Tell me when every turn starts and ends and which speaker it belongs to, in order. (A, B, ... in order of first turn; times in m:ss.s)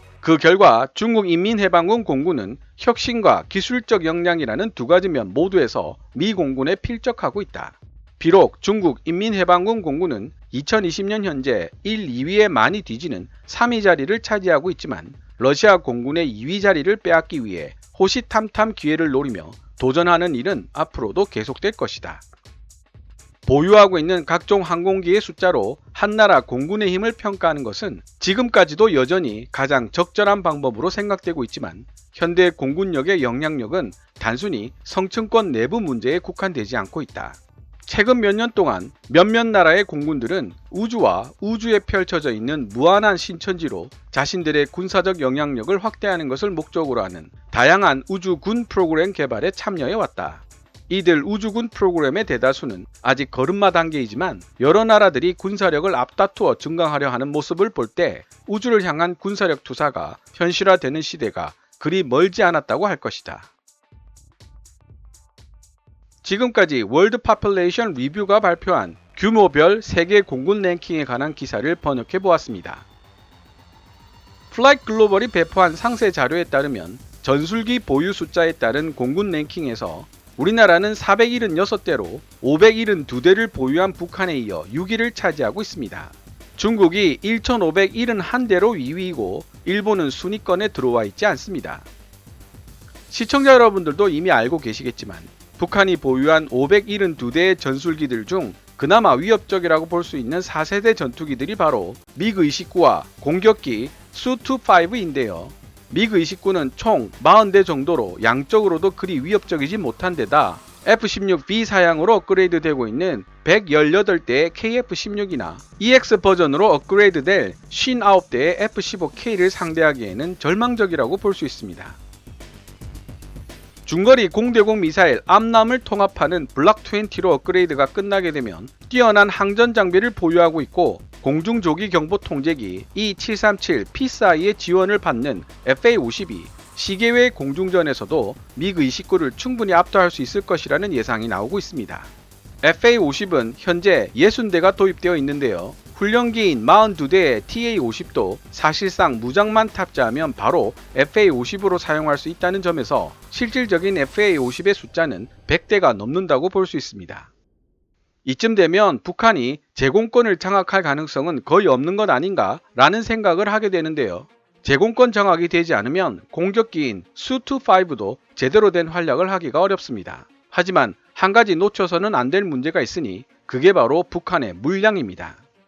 0:00.2-0:22.2 A
0:23.4-1:03.5 A
1:06.2-1:12.8 A
1:14.5-1:31.8 A
1:33.1-2:02.0 A
2:03.8-2:22.1 A
2:22.6-2:37.3 A
2:38.2-2:55.4 A